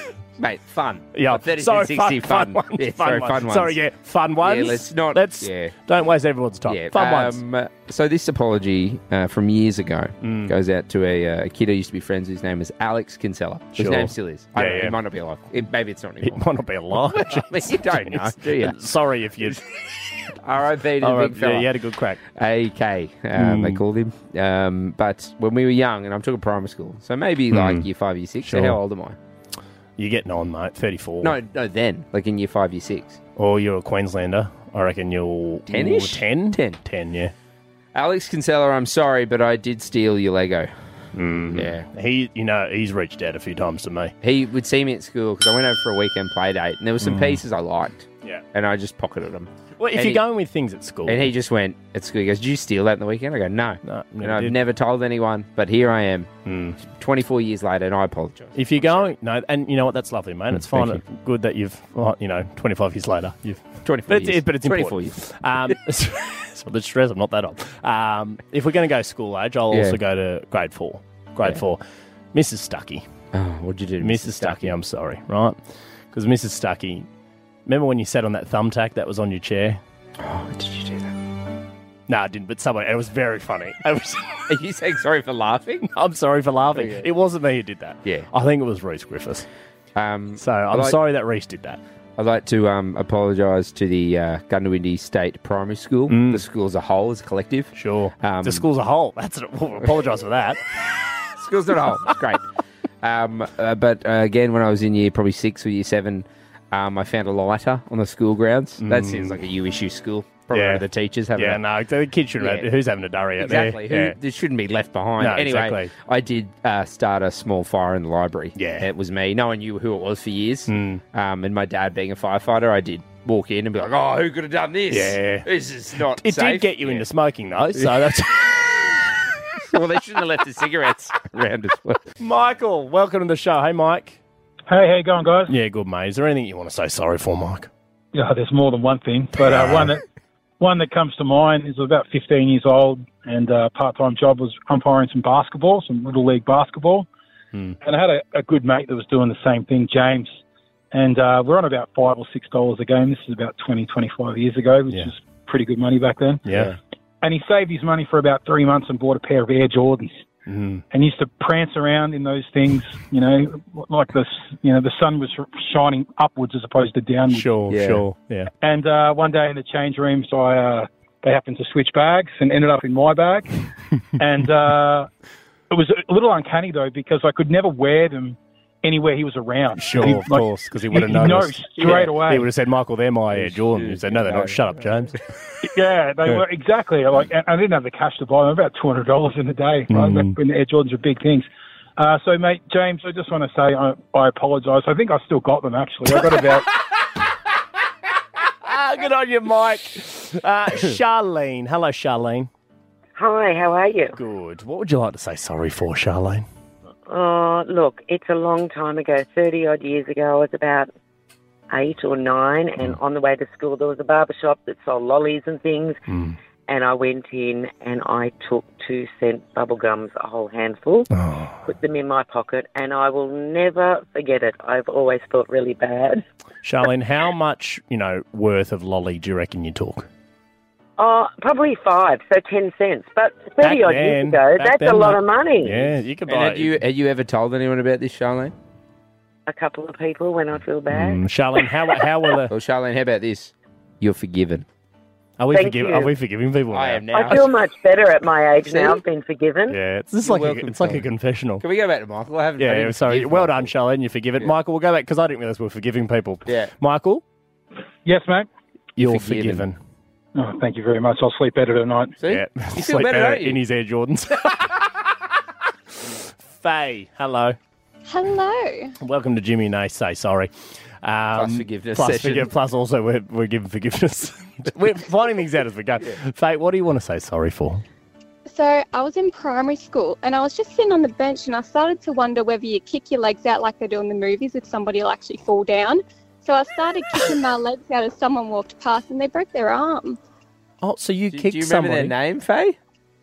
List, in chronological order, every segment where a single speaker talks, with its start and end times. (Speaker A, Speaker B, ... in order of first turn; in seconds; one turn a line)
Speaker A: 0.4-3.8
Speaker B: 1.1-7.4
Speaker A: 4.4-5.7
Speaker A: 6.7-16.4
Speaker B: 10.2-10.5
Speaker B: 13.8-14.9
Speaker B: 16.2-19.6
Speaker A: 16.9-18.8
Speaker A: 20.4-21.7
Speaker B: 21.0-22.2
Speaker A: 22.2-29.2
Speaker B: 23.3-23.8
Speaker B: 27.5-27.9
Speaker B: 28.4-28.8
Speaker B: 30.0-31.4
Speaker A: 31.2-33.2
Speaker B: 33.4-37.3
Speaker A: 35.7-36.8
Speaker A: 37.9-40.7
Speaker B: 41.1-44.1
Speaker A: 41.5-41.9
Speaker A: 44.2-50.2
Speaker B: 47.0-47.4
Speaker B: 49.8-51.3
Speaker A: 51.0-56.3
Speaker B: 53.8-54.6
Speaker B: 56.5-56.8
Speaker A: 56.8-59.1
Speaker B: 58.5-71.8
Speaker A: 60.5-61.0
Speaker A: 63.8-65.2
Speaker A: 69.7-70.0
Speaker B: 72.3-73.0
Speaker A: 73.3-74.7
Speaker B: 74.0-75.6
Speaker B: 76.1-77.1
Speaker B: 77.7-79.8
Speaker A: 80.2-81.2
Speaker B: 82.1-84.4
Speaker A: 84.5-85.9
Speaker B: 85.9-89.5
Speaker A: 86.7-87.1
Speaker A: 89.9-90.9
Speaker B: 90.4-91.8
Speaker A: 92.2-98.7
Speaker B: 96.1-96.4
Speaker B: 97.7-100.6
Speaker A: 101.4-102.4
Speaker A: 103.0-111.6
Speaker B: 108.8-109.4
Speaker B: 110.5-110.8
Speaker B: 111.4-114.2
Speaker A: 112.4-112.7
Speaker A: 113.4-127.1
Speaker B: 115.2-115.9
Speaker B: 118.5-118.9
Speaker B: 120.7-121.0
Speaker B: 124.9-125.5
Speaker B: 126.2-128.7
Speaker A: 127.8-128.0
Speaker A: 129.6-132.1
Speaker B: 132.2-134.2
Speaker C: 134.7-135.5
Speaker B: 135.5-137.7
Speaker C: 138.1-140.0
Speaker B: 139.4-139.9
Speaker C: 140.6-147.1
Speaker C: 147.8-150.3
Speaker C: 150.9-156.4
Speaker B: 156.4-156.7
Speaker C: 157.2-160.2
Speaker B: 160.5-160.8
Speaker C: 160.9-167.5
Speaker B: 167.3-168.5
Speaker A: 167.7-168.0
Speaker C: 168.6-173.5
Speaker C: 174.2-175.1
Speaker C: 175.7-182.5
Speaker B: 179.7-185.2
Speaker A: 183.3-184.9
Speaker C: 185.6-196.7
Speaker B: 189.9-190.3
Speaker B: 196.1-196.7
Speaker B: 198.6-202.5
Speaker D: 203.2-204.1
Speaker B: 204.1-206.4
Speaker D: 207.1-210.9
Speaker D: 211.7-216.0
Speaker B: 216.1-216.3
Speaker D: 216.7-221.1
Speaker B: 221.1-221.6
Speaker D: 221.6-226.2
Speaker B: 226.6-230.1
Speaker D: 231.0-235.8
Speaker B: 233.6-236.8
Speaker A: 236.3-238.5
Speaker D: 239.5-241.2
Speaker B: 240.9-242.5
Speaker A: 242.5-244.7
Speaker B: 245.4-247.3
Speaker D: 245.5-246.1
Speaker A: 246.7-247.5
Speaker D: 247.1-249.8
Speaker A: 248.7-249.0
Speaker B: 249.7-251.6
Speaker A: 250.2-251.1
Speaker A: 251.6-253.7
Speaker B: 252.6-257.2
Speaker A: 256.4-256.7
Speaker C: 258.0-258.5
Speaker B: 259.0-259.8
Speaker A: 259.0-259.6
Speaker C: 260.4-262.2
Speaker A: 262.2-263.6
Speaker B: 262.3-264.8
Speaker B: 266.4-267.6
Speaker E: 268.1-268.9
Speaker B: 269.0-270.5
Speaker B: 271.0-277.8
Speaker A: 271.3-272.5
Speaker E: 278.5-290.2
Speaker B: 290.8-292.1
Speaker A: 291.3-292.8